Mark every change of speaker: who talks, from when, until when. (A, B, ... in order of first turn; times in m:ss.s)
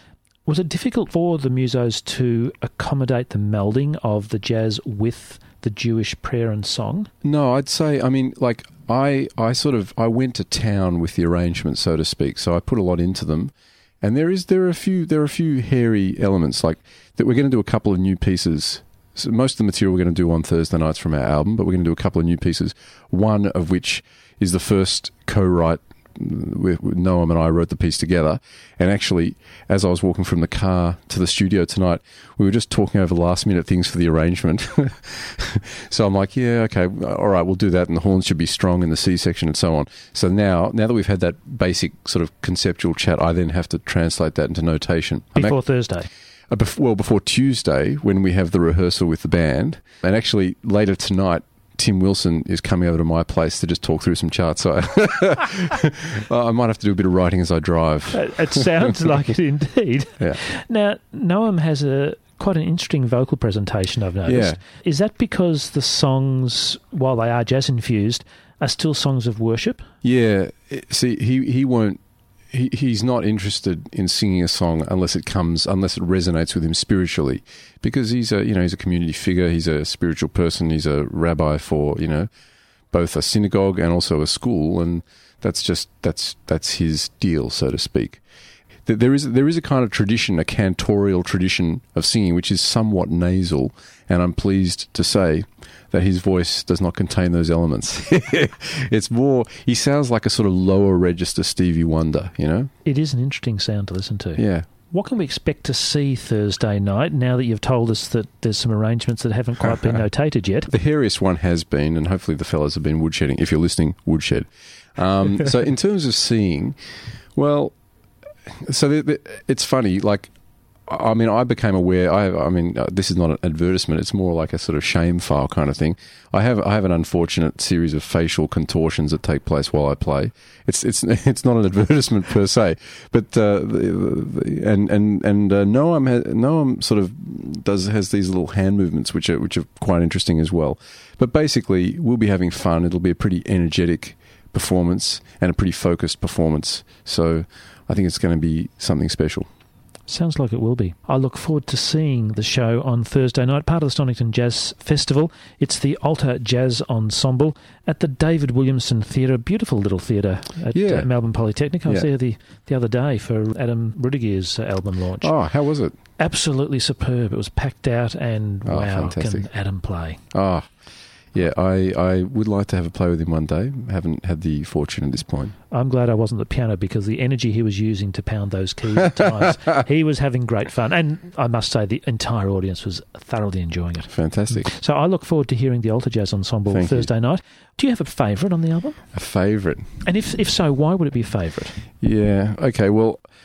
0:00.4-0:07.1 A
0:07.2-0:45.6 B
0:45.4-0:46.1 A
0:46.5-0:58.6 B
0:58.1-1:09.8 A
1:04.2-1:04.6 B
1:10.0-1:12.0 B
1:12.5-1:22.3 B
1:22.9-1:28.2 B
1:28.8-1:42.7 B
1:42.8-1:50.7 A
1:44.4-1:44.7 B
1:50.7-1:56.8 B
1:57.3-1:57.7 B
1:58.5-2:00.3 B
2:00.9-2:29.5 B
2:30.1-2:45.3 A
2:40.7-2:41.1 B
2:45.2-2:45.9 B
2:46.2-2:50.2 A
2:48.6-2:49.5 B
2:50.3-2:50.7 B
2:51.3-2:55.5 B
2:55.7-3:09.0 A
3:04.1-3:04.7 B
3:06.7-3:07.1 B
3:09.1-3:09.9 B
3:10.0-3:11.8 A
3:12.0-3:13.2 B